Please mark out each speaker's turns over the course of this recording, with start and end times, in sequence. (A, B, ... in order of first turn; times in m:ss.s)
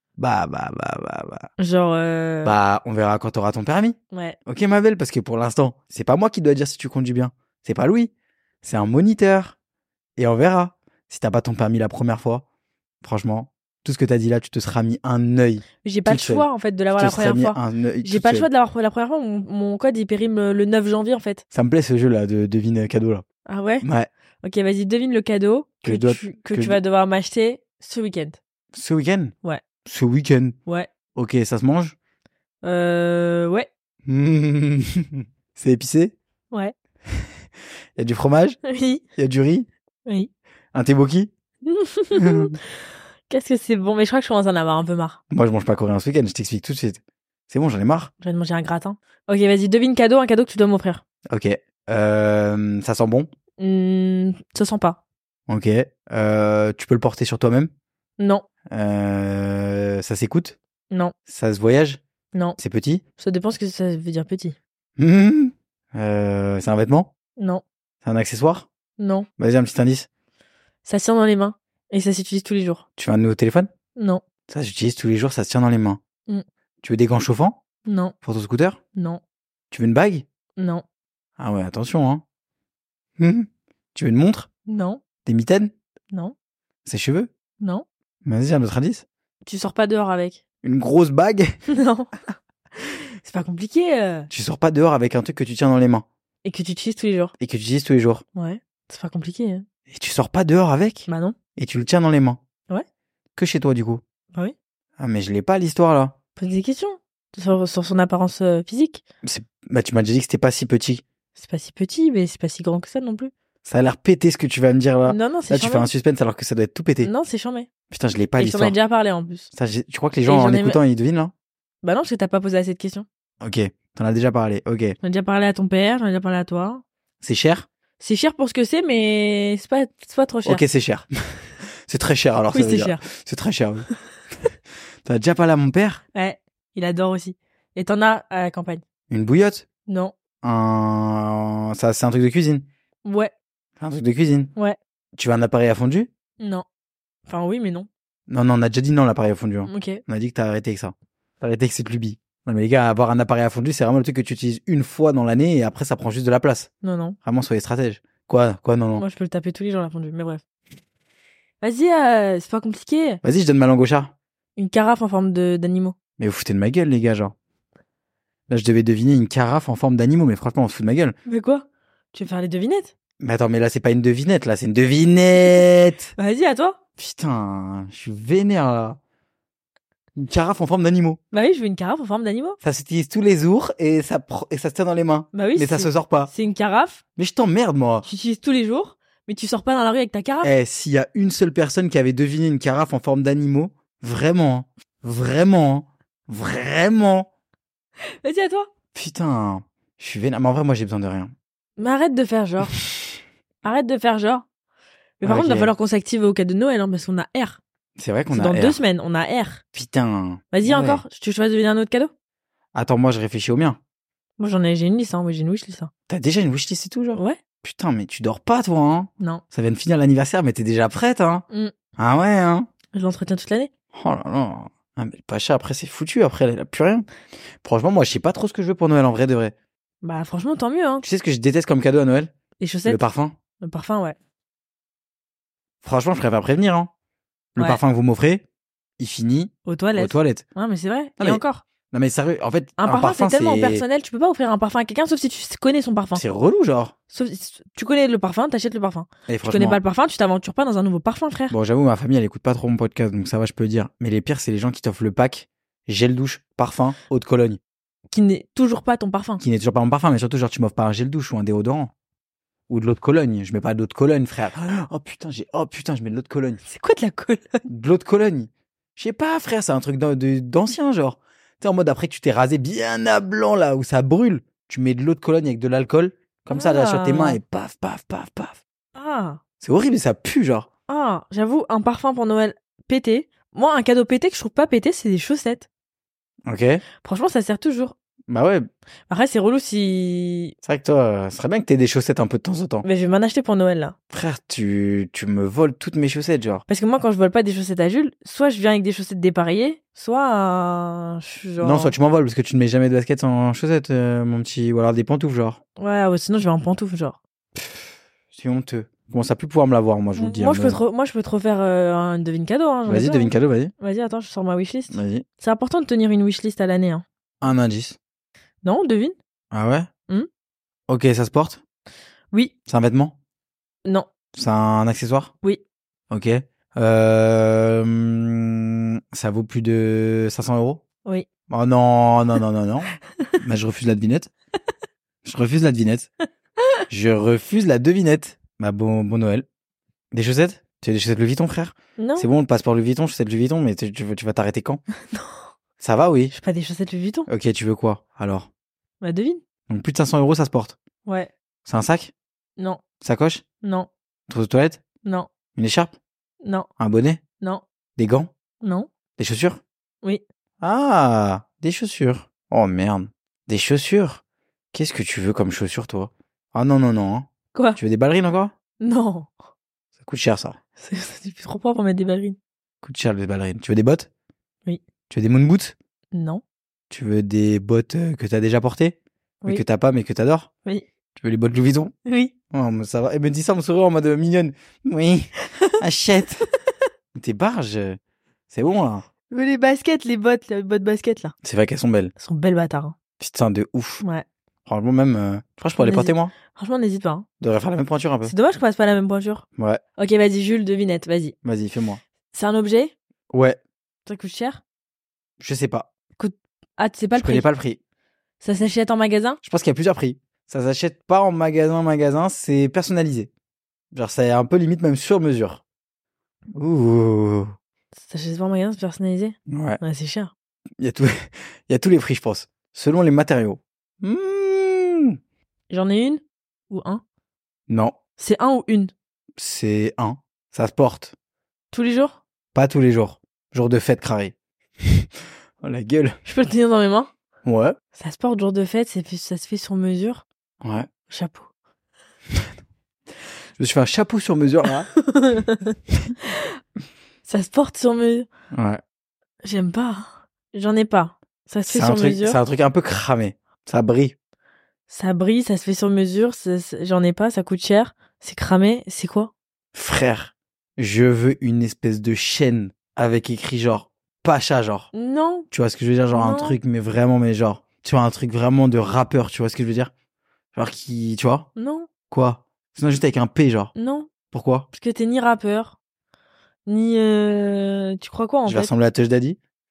0:00.2-0:01.5 A
0:01.6-0:02.6 B
0:02.4-0:08.1 A
0:04.1-0:04.4 B
0:08.6-0:09.6 A
0:10.2-0:12.4 A
0:13.0-0:18.5 A
0:15.8-0:21.4 B
0:21.5-0:23.2 A
0:23.5-0:23.9 B
0:23.8-0:24.1 A
0:24.4-0:28.4 B
0:25.8-0:26.8 A
0:28.7-0:29.3 A
0:29.8-0:30.6 A
0:31.2-0:32.0 A
0:32.6-0:33.7 B
0:34.1-0:36.2 A
0:38.0-0:38.6 A
0:38.7-0:39.0 B
0:39.2-0:39.7 A
0:40.7-0:41.3 A
0:41.7-0:42.6 B
0:42.1-0:42.5 A
0:43.3-0:45.2 B
0:45.3-0:48.1 A
0:48.2-0:51.0 B
0:51.3-0:53.3 A
0:53.6-0:55.0 B
0:55.5-0:57.7 A
0:58.2-0:58.5 B
0:58.7-1:00.6 A
1:01.3-1:02.0 A
1:02.6-1:03.0 A
1:03.2-1:04.6 B
1:05.0-1:07.1 A
1:07.4-1:07.6 B
1:08.0-1:08.7 A
1:09.0-1:09.3 B
1:09.4-1:10.1 A
1:10.8-1:12.8 B
1:13.0-1:13.7 A
1:14.0-1:14.2 B
1:14.5-1:16.0 A
1:16.8-1:17.6 A
1:17.8-1:18.1 B
1:18.2-1:18.8 A
1:19.0-1:19.2 B
1:19.7-1:20.2 A
1:20.6-1:20.8 B
1:21.4-1:22.2 A
1:23.2-1:24.5 A
1:24.7-1:25.0 B
1:25.2-1:25.7 A
1:26.8-1:27.3 A
1:28.2-1:29.0 A
1:29.4-1:30.4 B
1:30.6-1:31.5 A
1:31.7-1:32.1 B
1:32.8-1:34.3 B
1:34.3-1:36.0 A
1:36.4-1:37.3 B
1:37.4-1:38.2 A
1:38.4-1:39.6 B
1:39.9-1:42.4 A
1:41.1-1:41.4 B
1:43.4-1:44.0 A
1:45.0-1:46.2 A
1:46.4-1:49.0 B
1:49.2-1:51.0 A
1:51.4-1:53.3 B
1:53.6-1:57.1 A
1:55.1-1:55.9 B
1:57.0-1:57.7 B
1:57.9-1:58.8 A
1:58.4-1:59.5 B
1:59.5-2:01.3 A
2:00.3-2:00.8 B
2:01.8-2:03.1 B
2:03.4-2:05.0 A
2:05.0-2:06.8 B
2:07.2-2:07.7 A
2:08.0-2:10.6 B
2:10.4-2:11.1 A
2:11.9-2:13.9 A
2:12.5-2:13.0 B
2:15.0-2:16.0 A
2:16.1-2:18.8 B
2:19.1-2:19.7 A
2:19.9-2:20.1 B
2:20.4-2:22.6 A
2:23.0-2:23.3 B
2:23.8-2:24.5 A
2:25.2-2:26.1 A
2:26.4-2:26.6 B
2:27.3-2:27.9 B
2:28.3-2:36.7 A
2:29.7-2:30.0 B
2:36.8-2:37.2 B
2:37.2-2:39.0 A
2:39.0-2:40.4 B
2:41.6-2:43.2 B
2:43.2-2:44.1 A
2:44.6-2:46.0 B
2:46.2-2:47.3 A
2:48.5-2:51.2 A
2:51.3-2:52.9 B
2:53.2-2:56.1 A
2:56.2-2:56.8 B
2:57.0-2:59.0 A
3:00.2-3:01.2 A
3:01.3-3:02.6 B
3:02.6-3:06.3 A
3:05.3-3:07.0 B
3:07.2-3:08.1 A
3:08.0-3:10.5 B
3:10.4-3:17.3 A
3:18.2-3:18.7 B
3:19.0-3:21.3 A
3:21.8-3:22.8 B
3:23.6-3:24.5 B
3:25.2-3:27.6 B
3:25.2-3:25.7 A
3:28.0-3:28.8 A
3:28.3-3:29.6 B
3:29.7-3:31.0 A
3:30.5-3:32.1 B
3:32.7-3:33.8 A
3:34.4-3:35.9 B
3:36.1-3:41.4 A
3:37.2-3:37.4 B
3:42.0-3:42.7 A
3:42.9-3:43.7 B
3:43.9-3:47.1 A
3:47.6-3:49.5 A
3:50.0-3:51.1 B
3:51.0-3:52.3 A
3:52.6-3:53.0 B
3:52.8-3:53.4 A
3:53.6-3:54.2 B
3:55.8-3:56.9 A
3:57.6-3:57.8 B
3:57.6-3:58.4 A
3:59.0-4:00.4 A
3:59.7-4:01.6 B
4:01.2-4:03.8 A
4:02.8-4:06.2 B
4:06.2-4:06.9 A
4:07.1-4:11.6 B
4:09.3-4:09.8 A
4:11.5-4:17.6 A
4:18.1-4:19.4 B
4:19.4-4:21.9 A
4:22.7-4:26.6 A
4:26.6-4:27.6 B
4:27.7-4:38.6 A
4:36.5-4:37.4 B
4:39.0-4:39.4 B
4:39.6-4:40.7 A
4:40.9-4:45.7 B
4:46.5-4:46.8 A
4:47.0-4:48.0 B
4:48.3-4:48.7 A
4:49.1-4:50.5 B
4:50.6-4:52.8 A
4:52.8-4:54.0 B
4:54.1-4:56.6 A
4:56.7-5:02.0 B
5:01.6-5:05.6 A
5:05.8-5:07.2 B
5:08.3-5:10.8 A
5:10.2-5:17.0 B
5:12.9-5:13.7 A
5:14.9-5:15.2 A
5:17.4-5:18.0 A
5:18.6-5:19.2 B
5:19.5-5:19.9 A
5:20.9-5:21.6 A
5:22.7-5:23.2 A
5:24.3-5:25.3 A
5:26.1-5:30.8 A
5:31.5-5:34.3 A
5:35.2-5:36.1 A
5:36.9-5:39.5 A
5:40.1-5:44.8 A
5:42.0-5:42.3 B
5:45.1-5:45.4 B
5:45.8-5:46.3 A
5:46.3-5:47.3 B
5:47.3-5:48.5 A
5:49.0-5:49.4 B
5:49.7-5:50.8 A
5:51.0-5:51.3 B
5:51.7-5:52.1 A
5:53.0-5:53.4 A
5:53.6-5:53.9 B
5:54.3-5:54.8 A
5:55.0-5:55.3 B
5:55.6-5:55.9 A
5:56.4-5:56.7 B
5:56.8-5:57.2 A
5:58.0-5:58.3 A
5:58.6-5:58.9 B
5:59.2-5:59.6 A
6:00.6-6:04.2 A
6:04.7-6:08.5 A
6:07.5-6:07.8 B
6:08.8-6:09.3 B
6:10.0-6:10.6 A
6:10.8-6:12.4 B
6:12.8-6:14.1 A
6:15.1-6:15.8 A
6:16.1-6:16.4 B
6:16.9-6:20.5 A
6:21.2-6:21.9 A
6:22.1-6:22.3 B
6:22.5-6:26.5 A
6:27.1-6:28.0 A
6:28.5-6:29.0 A
6:29.3-6:31.3 B
6:31.4-6:32.1 A
6:32.2-6:33.0 B
6:33.2-6:34.0 A
6:34.7-6:36.3 A
6:35.8-6:37.3 B
6:37.4-6:38.3 A
6:38.2-6:39.4 B
6:40.0-6:41.3 B
6:41.4-6:42.0 A
6:42.3-6:42.9 B
6:43.3-6:43.6 A
6:44.1-6:44.6 B
6:45.4-6:45.9 A
6:46.2-6:47.4 B
6:47.1-6:47.8 A
6:48.4-6:49.4 B
6:49.4-6:53.3 A
6:53.9-6:55.6 A
6:56.5-6:57.5 A
6:58.0-7:00.3 B
6:59.5-6:59.8 A
7:00.8-7:05.2 A
7:05.7-7:07.0 B
7:07.7-7:08.0 A
7:08.2-7:08.9 B
7:09.4-7:11.1 A
7:11.7-7:12.2 B
7:12.5-7:15.1 A
7:15.6-7:16.2 A
7:16.2-7:17.1 B
7:17.4-7:17.8 A
7:18.0-7:20.2 B
7:20.6-7:20.9 A
7:21.1-7:21.5 B
7:23.6-7:24.9 A
7:25.0-7:25.8 B
7:27.3-7:28.3 B
7:28.5-7:28.8 A
7:29.4-7:32.4 B
7:31.7-7:34.2 A
7:34.9-7:39.3 B
7:39.7-7:44.9 A
7:44.9-7:45.5 B
7:45.5-7:49.9 A
7:46.1-7:46.6 B
7:50.5-7:51.5 A
7:51.6-7:51.9 B
7:52.1-7:53.7 A
7:53.8-7:54.1 B
7:54.3-7:54.7 A
7:54.7-7:55.8 B
7:56.7-7:58.7 B
7:58.5-7:59.4 A